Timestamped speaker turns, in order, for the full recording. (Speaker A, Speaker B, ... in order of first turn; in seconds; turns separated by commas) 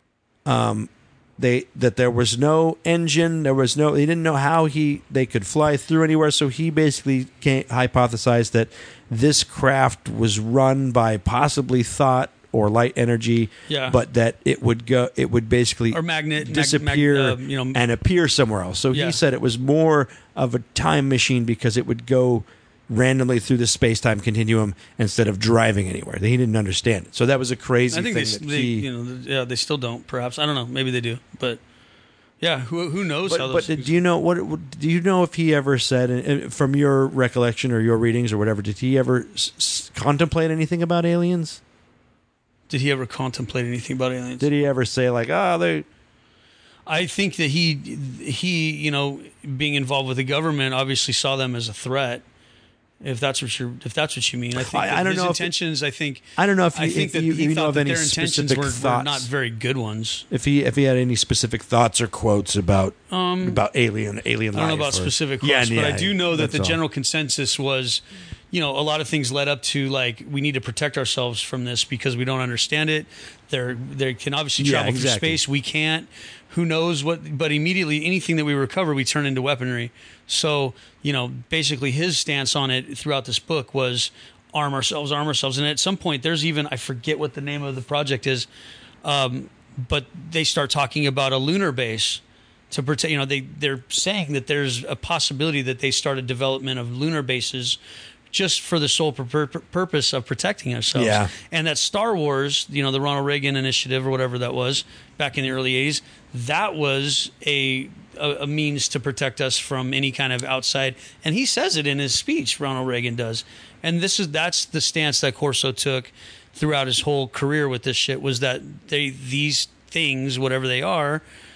Speaker A: 0.4-28.9, Speaker B: 13.7-14.0, Speaker B: 15.9-17.8, Speaker B: 18.9-19.2, Speaker B: 27.9-31.6, Speaker B: 32.4-33.9, Speaker A: 33.2-41.6, Speaker B: 42.7-44.5, Speaker A: 44.4-45.9, Speaker B: 46.9-52.2, Speaker B: 53.0-60.2, Speaker A: 54.5-55.5, Speaker A: 56.4-59.3, Speaker A: 60.3-66.8, Speaker B: 63.1-63.6, Speaker B: 64.5-88.5, Speaker A: 74.6-75.4, Speaker B: 89.0-97.8, Speaker B: 98.3-121.2, Speaker A: 100.9-101.3